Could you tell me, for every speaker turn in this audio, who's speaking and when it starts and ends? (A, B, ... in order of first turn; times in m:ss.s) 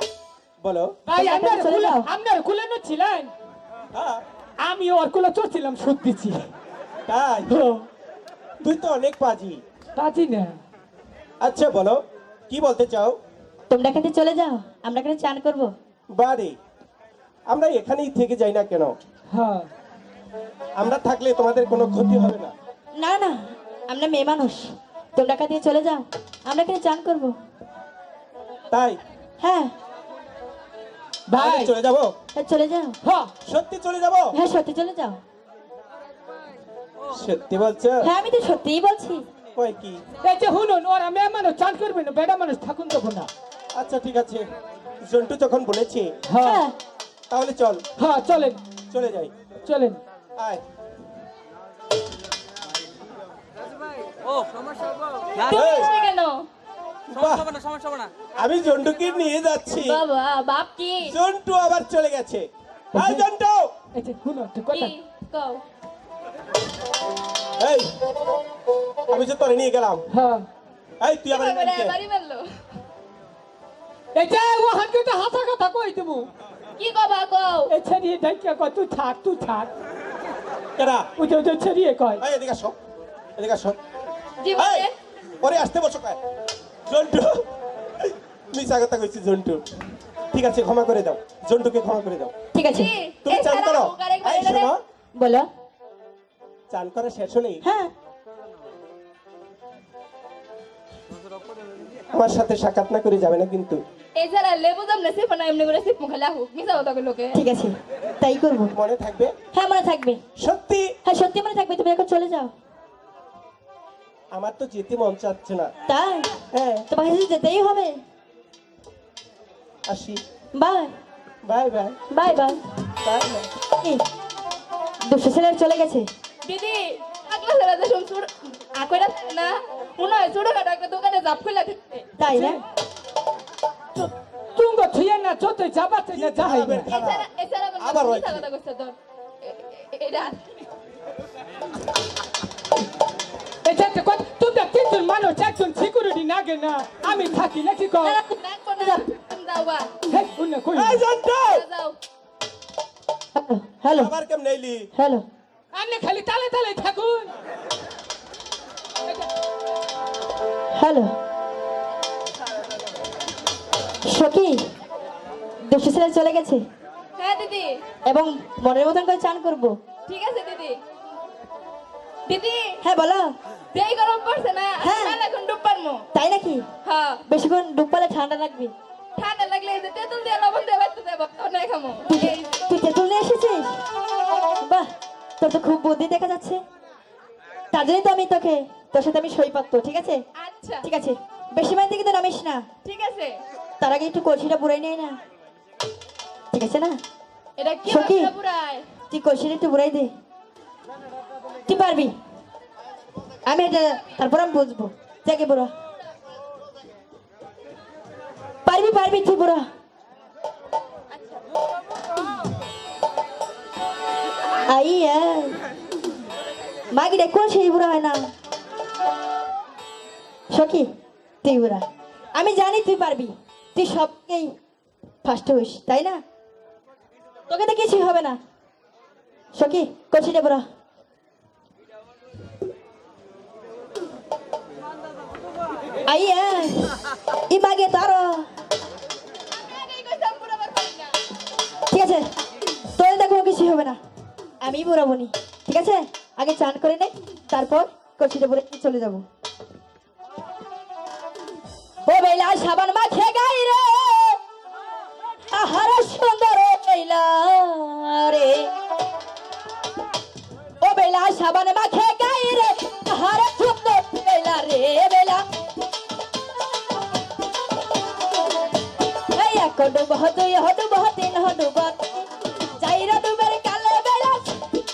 0:00.6-0:01.0 A
0:01.0-0:03.3 B
0:01.1-0:02.1 C
0:03.9-0:04.2 A
0:04.6-0:06.5 B
0:07.1-0:07.5 A
0:07.5-0:07.8 B
0:08.6-0:09.6 A
0:10.0-0:10.6 B
0:11.4-0:13.2 A
0:13.7-0:15.7 C
0:16.1-0:16.6 A
0:17.5-0:18.9 A
0:19.3-0:19.7 B
0:20.8-0:22.5 A
0:23.0-0:27.4 C
0:28.7-0:29.0 A
0:29.4-0:29.7 C
0:31.3-0:31.7 B
0:31.3-0:32.1 A
0:32.3-0:33.0 C
0:33.0-0:33.3 B
0:33.4-0:34.4 A
0:34.3-0:35.2 C
0:37.1-0:38.0 A
0:38.0-0:39.2 C
0:39.6-0:40.0 A
0:40.2-0:43.3 B
0:43.7-0:44.4 A
0:45.0-0:46.1 A
0:46.3-0:46.6 B
0:46.4-0:46.7 C
0:47.3-0:47.8 A
0:48.0-0:48.6 B
0:48.9-0:49.3 A
0:49.6-0:50.0 B
0:50.4-0:50.6 A
0:55.3-0:56.4 D
0:55.4-0:55.9 A
0:57.1-0:57.6 A
0:58.4-1:00.0 A
0:59.8-1:01.1 D
1:01.1-1:03.7 A
1:02.9-1:03.2 B
1:03.9-1:04.9 B
1:04.7-1:05.6 D
1:07.6-1:07.9 A
1:09.1-1:10.0 A
1:10.1-1:10.4 B
1:11.0-1:12.0 A
1:11.3-1:12.5 D
1:14.1-1:16.3 B
1:16.8-1:17.7 D
1:17.7-1:19.7 B
1:20.8-1:21.1 A
1:21.2-1:22.2 B
1:22.2-1:22.8 A
1:23.4-1:23.8 A
1:24.4-1:24.9 D
1:24.6-1:24.9 A
1:25.4-1:26.2 A
1:26.9-1:27.4 A
1:28.0-1:29.6 A
1:30.3-1:32.3 A
1:32.5-1:32.9 C
1:32.7-1:34.7 D
1:33.2-1:34.8 A
1:35.2-1:35.5 C
1:36.7-1:37.6 A
1:37.6-1:37.9 C
1:42.1-1:43.8 A
1:44.2-1:47.4 D
1:47.3-1:48.7 C
1:48.7-1:49.3 A
1:49.5-1:50.2 C
1:50.4-1:50.9 A
1:51.0-1:52.5 C
1:54.3-1:55.7 A
1:55.9-1:56.3 C
1:56.5-1:56.9 A
1:56.9-1:58.0 C
1:59.9-2:00.2 A
2:00.5-2:00.9 C
2:01.4-2:02.0 A
2:02.1-2:02.6 C
2:03.0-2:03.5 A
2:05.0-2:06.1 C
2:06.4-2:12.1 D
2:12.2-2:12.6 C
2:12.3-2:12.6 B
2:14.0-2:16.9 B
2:16.1-2:18.5 A
2:16.8-2:20.6 D
2:23.6-2:28.2 B
2:28.0-2:30.0 D
2:28.3-2:29.0 C
2:30.1-2:31.0 B
2:30.7-2:31.6 A
2:31.4-2:32.0 D
2:33.3-2:34.1 C
2:33.9-2:34.9 A
2:35.0-2:35.2 C
2:35.7-2:37.3 B
2:40.7-2:41.1 C
2:44.0-2:44.6 C
2:45.6-2:46.6 C
2:47.2-2:47.8 D
2:48.1-2:49.8 C
2:50.1-2:50.8 D
2:52.3-2:52.8 D
2:52.8-2:53.3 C
2:53.7-2:56.0 D
2:54.8-2:55.2 C
2:56.1-2:56.6 C
2:56.8-2:57.2 D
2:57.3-2:58.7 C
2:59.2-3:02.6 D
3:02.0-3:03.8 C
3:05.4-3:06.6 C
3:07.7-3:10.2 C
3:10.4-3:10.8 D
3:10.8-3:12.7 C
3:12.8-3:13.4 D
3:13.8-3:15.2 C
3:16.5-3:17.0 C
3:17.6-3:18.9 D
3:17.8-3:18.3 C
3:19.1-3:20.1 C
3:21.7-3:22.1 C
3:23.4-3:25.7 C
3:28.6-3:29.6 C
3:34.7-3:35.6 C
3:36.9-3:38.3 C
3:40.5-3:40.9 C
3:41.4-3:44.5 C
3:45.2-3:46.2 C
3:47.5-3:48.4 C
3:49.5-3:50.6 C
3:56.1-3:56.9 C
3:57.5-3:58.5 C
3:59.6-4:01.2 D
4:01.9-4:02.3 C
4:02.9-4:04.0 C
4:04.6-4:09.2 C
4:12.0-4:14.4 C
4:15.5-4:18.7 C
4:20.8-4:25.4 C
4:29.3-4:32.0 C
4:32.8-4:34.6 C